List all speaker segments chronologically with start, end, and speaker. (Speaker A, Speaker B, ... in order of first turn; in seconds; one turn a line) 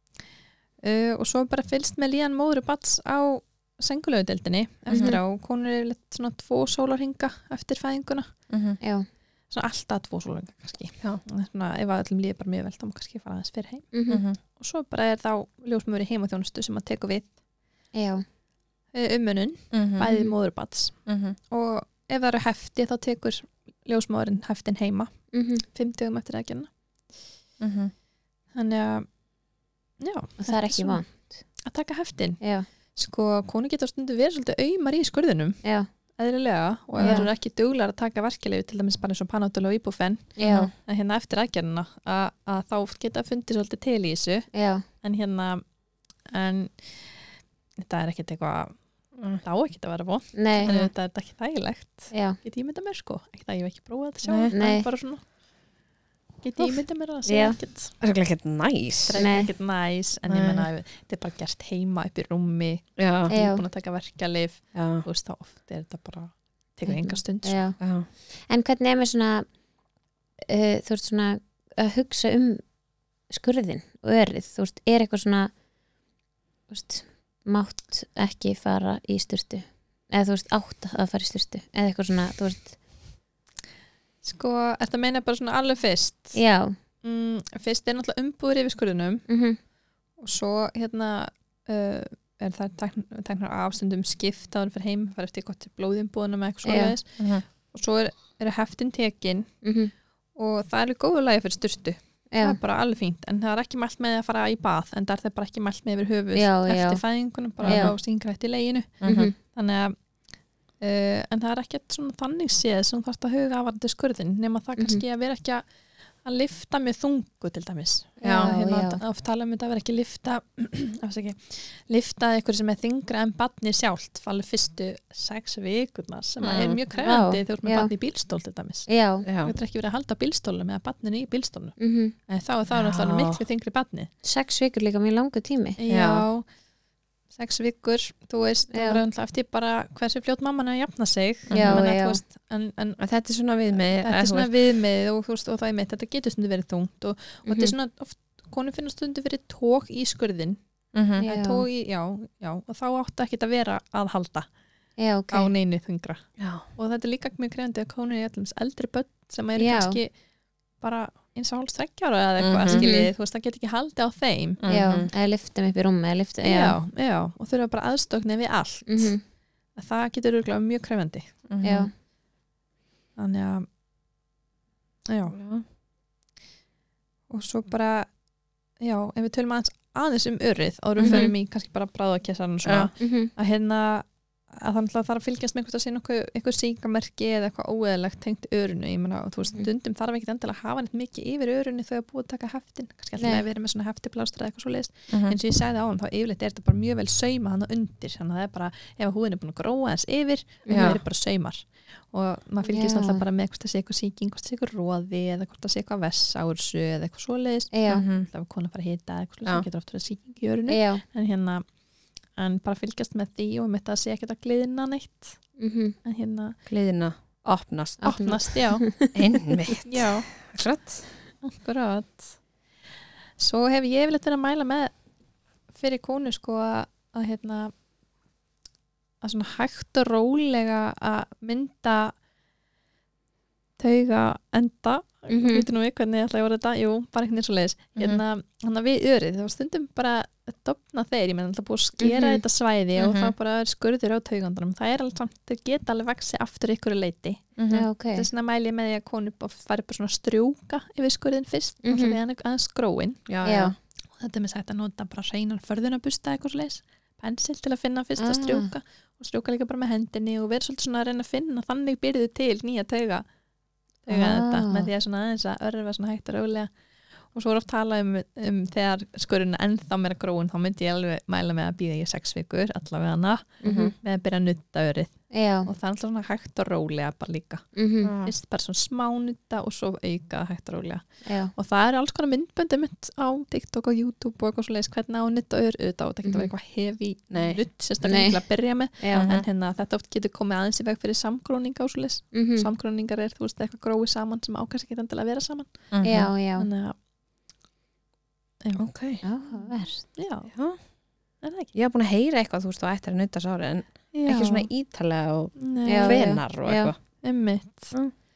Speaker A: 0.8-8.3
Speaker B: 4.9-5.2
Speaker C: 4.9-5.2
Speaker B: 8.5-8.8
Speaker C: 8.8-9.1
Speaker A: 9.5-13.9
Speaker C: 13.9-14.2
Speaker B: 14.1-14.4
Speaker A: 14.6-17.3
Speaker C: 17.9-18.2
Speaker A: 18.9-21.0
Speaker B: 19.7-20.1
Speaker C: 20.1-20.3
Speaker B: 21.1-21.4
Speaker A: 21.5-25.1
Speaker C: 25.3-25.6
Speaker A: 25.6-26.7
Speaker B: 27.6-27.9
Speaker A: 28.5-29.1
Speaker A: 30.0-31.0
Speaker C: 30.4-31.4
Speaker A: 31.6-32.4
Speaker C: 32.4-32.7
Speaker A: 33.0-35.6
Speaker A: 36.2-44.5
Speaker B: 37.0-37.3
Speaker C: 37.0-37.3
Speaker C: 40.4-40.7
Speaker B: 40.4-40.7
Speaker C: 44.5-44.9
Speaker A: 45.0-45.6
Speaker A: 46.3-46.8
Speaker A: 47.8-48.7
Speaker A: 49.4-55.2
Speaker C: 50.3-50.7
Speaker C: 52.1-52.4
Speaker B: 54.2-54.5
Speaker C: 54.5-54.9
Speaker A: 56.4-58.0
Speaker C: 57.3-57.6
Speaker B: 58.0-59.2
Speaker A: 59.0-67.7
Speaker C: 59.2-59.5
Speaker B: 60.3-60.7
Speaker B: 63.0-63.3
Speaker C: 63.3-63.6
Speaker B: 64.8-65.0
Speaker C: 66.9-67.8
Speaker B: 67.8-68.1
Speaker C: 68.5-69.5
Speaker C: 70.5-72.6
Speaker C: 73.3-75.5
Speaker C: 76.7-82.8
Speaker A: 84.2-86.4
Speaker C: 86.3-86.8
Speaker A: 87.0-89.2
Speaker C: 89.3-89.6
Speaker A: 90.2-99.5
Speaker C: 96.7-97.0
Speaker B: 97.2-97.4
Speaker C: 99.6-99.9
Speaker A: 100.4-109.9
Speaker C: 102.3-102.6
Speaker C: 106.3-107.0
Speaker B: 107.6-108.0
Speaker C: 107.6-107.9
Speaker B: 109.0-109.3
Speaker C: 109.0-109.3
Speaker A: 110.8-115.6
Speaker C: 114.8-115.0
Speaker A: 116.2-128.9
Speaker C: 118.2-119.0
Speaker B: 118.2-118.5
Speaker B: 126.4-126.8
Speaker C: 127.0-127.9
Speaker C: 128.9-129.2
Speaker B: 129.2-129.5
Speaker A: 129.4-134.1
Speaker C: 131.8-132.1
Speaker B: 132.7-133.4
Speaker C: 134.2-135.8
Speaker A: 135.8-136.4
Speaker B: 135.9-136.3
Speaker A: 137.3-143.0
Speaker C: 138.7-139.0
Speaker B: 141.5-141.8
Speaker C: 141.5-142.2
Speaker B: 143.0-144.5
Speaker A: 144.0-150.6
Speaker C: 147.5-147.7
Speaker B: 150.9-151.2
Speaker A: 151.2-154.5
Speaker C: 151.2-151.7
Speaker C: 155.0-155.5
Speaker A: 155.3-160.1
Speaker B: 156.4-156.7
Speaker C: 159.6-160.0
Speaker A: 160.8-164.6
Speaker B: 162.4-162.9
Speaker C: 162.7-163.1
Speaker B: 164.6-165.1
Speaker C: 164.7-166.8
Speaker A: 166.4-169.2
Speaker C: 168.9-169.2
Speaker A: 169.8-171.3
Speaker B: 171.5-171.9
Speaker C: 171.6-171.9
Speaker A: 173.2-173.7
Speaker A: 175.1-175.4
Speaker B: 175.3-175.6
Speaker A: 177.3-178.1
Speaker A: 178.8-211.6
Speaker B: 181.0-181.3
Speaker C: 181.0-181.3
Speaker B: 182.7-182.9
Speaker C: 183.0-183.3
Speaker C: 193.2-193.4
Speaker B: 195.1-195.4
Speaker C: 200.7-201.0
Speaker B: 200.7-201.0
Speaker C: 202.7-203.2
Speaker C: 207.7-208.1
Speaker B: 207.9-208.3
Speaker C: 210.7-211.0
Speaker A: 212.4-216.6
Speaker C: 215.6-215.9
Speaker B: 216.7-218.4
Speaker C: 218.0-219.2
Speaker A: 218.0-218.9
Speaker B: 219.1-221.1
Speaker A: 219.8-220.4
Speaker A: 221.4-222.4
Speaker A: 223.4-224.9
Speaker A: 225.7-227.7
Speaker A: 229.2-232.2
Speaker A: 233.8-247.6
Speaker C: 235.3-235.7
Speaker C: 242.0-242.4
Speaker B: 243.0-243.3
Speaker B: 247.6-247.9
Speaker C: 247.7-248.3
Speaker A: 248.1-253.2
Speaker C: 251.8-252.2
Speaker B: 253.3-253.8
Speaker C: 253.4-253.8
Speaker A: 254.2-263.2
Speaker C: 258.2-258.7
Speaker A: 264.1-266.7
Speaker C: 264.1-264.9
Speaker A: 267.3-277.6
Speaker C: 273.6-273.9
Speaker B: 273.6-273.9
Speaker C: 275.3-275.7
Speaker C: 277.8-278.1
Speaker B: 278.0-278.3
Speaker A: 278.2-295.9
Speaker C: 281.3-281.5
Speaker C: 286.2-286.5
Speaker B: 287.3-287.6
Speaker C: 288.0-288.4
Speaker C: 289.0-289.3
Speaker B: 289.1-289.4
Speaker C: 292.3-292.7
Speaker B: 295.9-296.3
Speaker C: 296.0-296.7
Speaker A: 296.6-296.9
Speaker A: 298.6-298.9
Speaker B: 298.8-299.2
Speaker C: 299.2-300.0
Speaker A: 300.1-300.5
Speaker B: 300.5-300.8
Speaker A: 301.4-301.7
Speaker B: 301.7-307.0
Speaker A: 304.1-304.7
Speaker A: 305.6-306.3
Speaker C: 305.9-306.9
Speaker A: 307.2-307.9